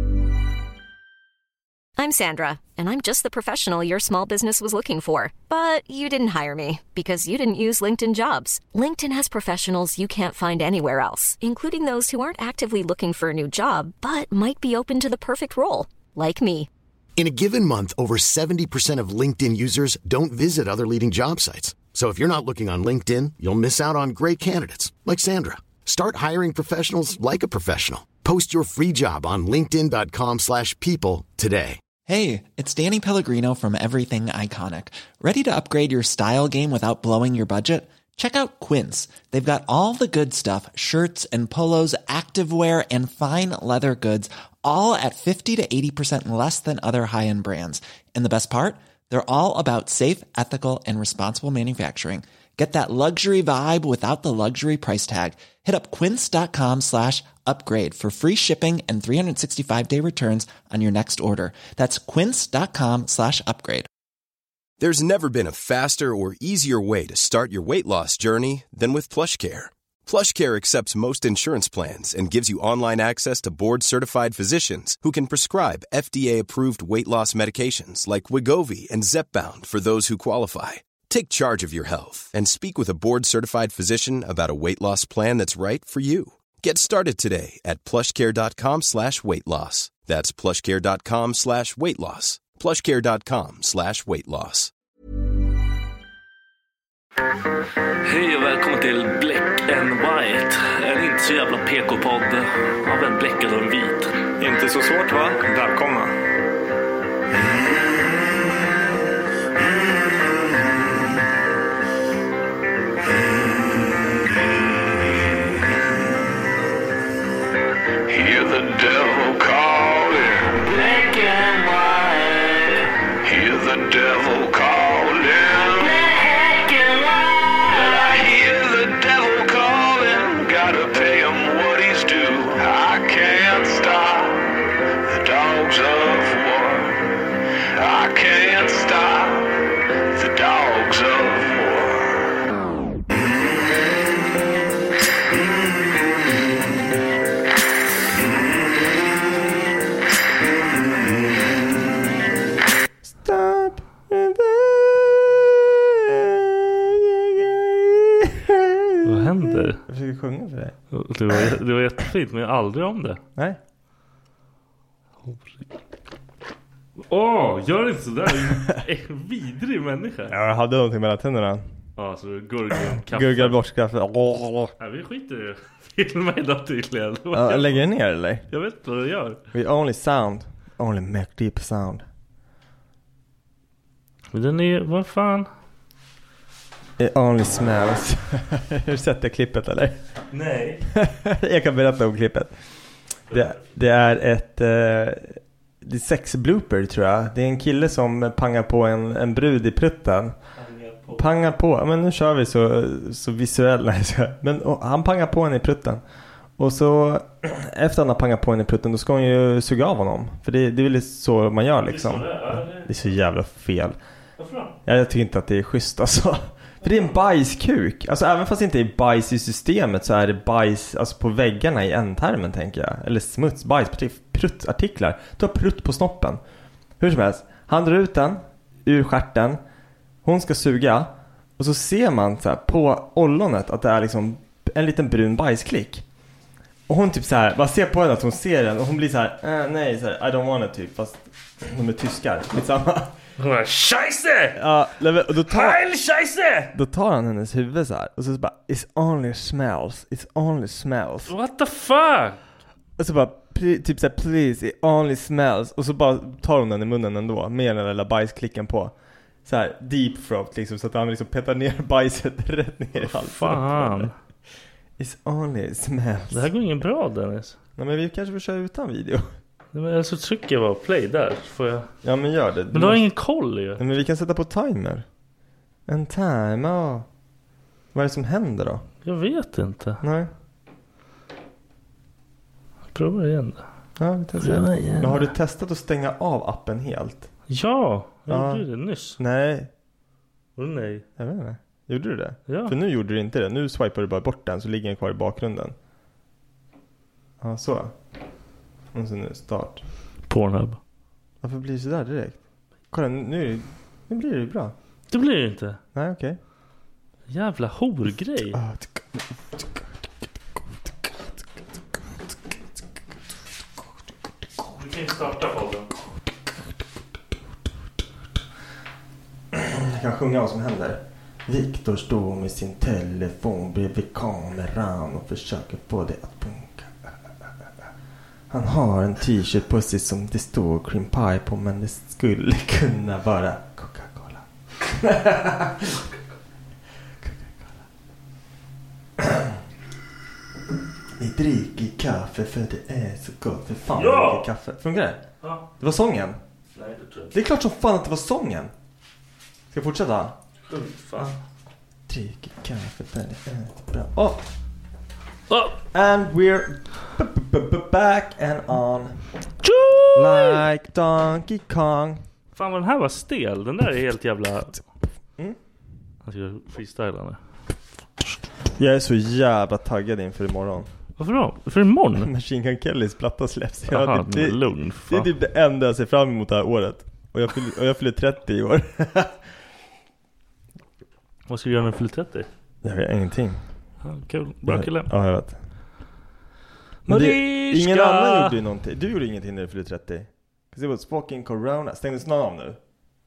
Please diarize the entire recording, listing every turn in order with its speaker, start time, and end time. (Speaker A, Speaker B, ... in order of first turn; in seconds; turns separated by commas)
Speaker A: 2.0-16.7, Speaker B: 17.1-31.8, Speaker C: 32.1-63.9, Speaker D: 64.8-94.7, Speaker E: 98.0-104.1, Speaker F: 104.4-106.1, Speaker G: 118.1-137.0, Speaker G: 137.7-142.3, Speaker G: 143.2-143.7, Speaker F: 153.1-160.8, Speaker E: 159.0-159.8, Speaker E: 160.9-163.2, Speaker E: 167.1-170.3, Speaker F: 170.3-171.7, Speaker E: 172.0-173.6, Speaker F: 172.9-174.7, Speaker E: 174.8-177.8, Speaker F: 177.3-178.4, Speaker E: 178.5-179.4, Speaker F: 179.5-182.0, Speaker E: 184.3-185.5, Speaker F: 187.0-189.9, Speaker E: 190.3-190.8, Speaker F: 190.9-192.5, Speaker F: 193.3-200.3, Speaker E: 200.6-201.2, Speaker F: 201.2-206.0, Speaker F: 206.6-214.0, Speaker E: 211.9-212.9, Speaker E: 214.4-214.7, Speaker F: 214.8-226.4, Speaker F: 227.0-229.6, Speaker F: 230.2-236.0, Speaker F: 236.9-243.1, Speaker E: 243.4-244.6, Speaker F: 244.6-245.8, Speaker E: 245.5-246.7, Speaker F: 246.7-251.3, Speaker E: 251.3-252.4, Speaker F: 253.0-258.9, Speaker F: 259.4-264.1, Speaker E: 263.0-264.1, Speaker F: 265.0-266.5, Speaker E: 266.3-267.6, Speaker F: 267.8-269.3, Speaker E: 269.7-271.9, Speaker F: 272.0-273.0, Speaker E: 272.7-273.8, Speaker F: 273.8-275.0, Speaker F: 275.9-277.1, Speaker F: 277.9-278.8, Speaker E: 279.0-280.0, Speaker F: 280.0-280.3, Speaker E: 282.9-283.6, Speaker F: 284.0-287.3, Speaker E: 284.4-285.3, Speaker E: 287.5-289.2, Speaker F: 288.3-288.6, Speaker F: 289.2-289.7, Speaker E: 290.6-291.0, Speaker F: 291.2-295.7, Speaker E: 292.5-292.7, Speaker F: 297.4-297.9, Speaker F: 298.9-299.8, Speaker E: 300.3-300.8, Speaker F: 301.4-302.4, Speaker F: 302.9-304.7, Speaker E: 305.1-305.8, Speaker F: 305.9-306.4, Speaker E: 307.3-308.6, Speaker F: 308.5-309.0, Speaker E: 314.6-315.9, Speaker F: 319.5-327.1, Speaker F: 328.5-336.0, Speaker F: 337.2-337.6, Speaker F: 339.2-339.5, Speaker F: 341.2-345.2, Speaker E: 343.9-344.5, Speaker F: 345.8-346.4, Speaker E: 346.7-347.3, Speaker F: 347.3-348.7, Speaker F: 349.7-350.3, Speaker E: 350.7-351.3, Speaker F: 352.1-354.4, Speaker E: 355.5-355.8, Speaker F: 355.9-359.2, Speaker E: 359.6-360.6, Speaker F: 360.1-362.2, Speaker E: 362.5-364.8, Speaker E: 366.2-367.4, Speaker F: 368.8-370.9, Speaker E: 371.2-372.3, Speaker F: 372.2-379.3, Speaker E: 373.9-375.3, Speaker E: 381.5-382.5, Speaker F: 382.8-383.6, Speaker E: 384.0-385.1, Speaker F: 384.7-385.6, Speaker E: 387.1-388.6, Speaker F: 387.1-392.8